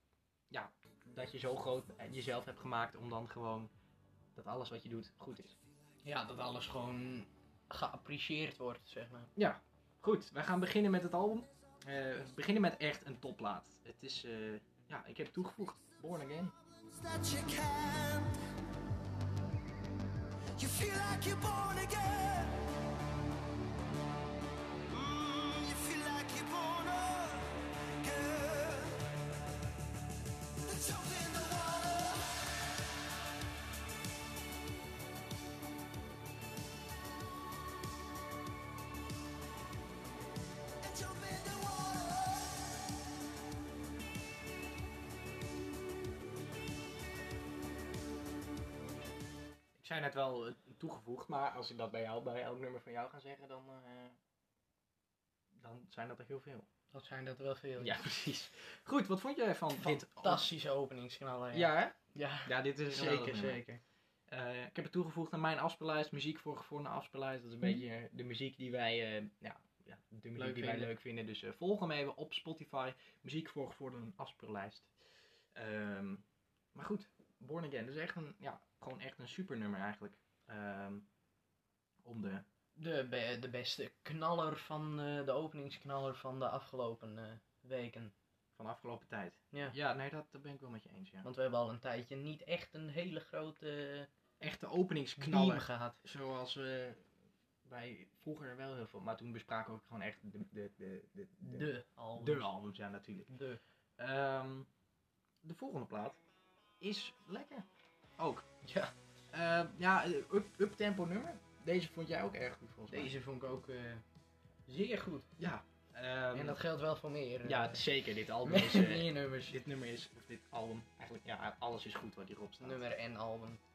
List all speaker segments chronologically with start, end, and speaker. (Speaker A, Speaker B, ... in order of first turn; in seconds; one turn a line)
Speaker A: 0.5-3.7
Speaker A: 4.3-5.6
Speaker B: 6.0-9.3
Speaker A: 9.3-16.5
Speaker C: 16.6-18.5
Speaker C: 20.6-22.7
Speaker C: 24.8-29.1
Speaker C: 30.6-32.5
Speaker C: 40.8-42.8
Speaker A: 49.8-54.2
Speaker A: 55.5-56.6
Speaker B: 56.9-58.1
Speaker A: 57.8-60.5
Speaker B: 59.8-63.8
Speaker A: 61.5-63.6
Speaker A: 64.3-74.9
Speaker B: 70.4-70.9
Speaker A: 75.5-81.0
Speaker A: 82.0-82.4
Speaker B: 82.8-88.1
Speaker A: 88.5-91.3
Speaker B: 91.2-94.1
Speaker A: 94.4-97.0
Speaker B: 95.2-96.0
Speaker A: 97.6-103.3
Speaker B: 101.4-102.5
Speaker B: 103.3-103.6
Speaker A: 104.0-104.7
Speaker A: 105.4-106.2
Speaker A: 106.8-107.7
Speaker A: 108.2-108.6
Speaker B: 108.6-108.9
Speaker A: 109.3-113.1
Speaker B: 112.9-114.0
Speaker B: 114.7-115.3
Speaker A: 115.4-116.6
Speaker B: 116.3-117.8
Speaker A: 117.4-122.8
Speaker B: 118.4-119.6
Speaker B: 122.6-123.6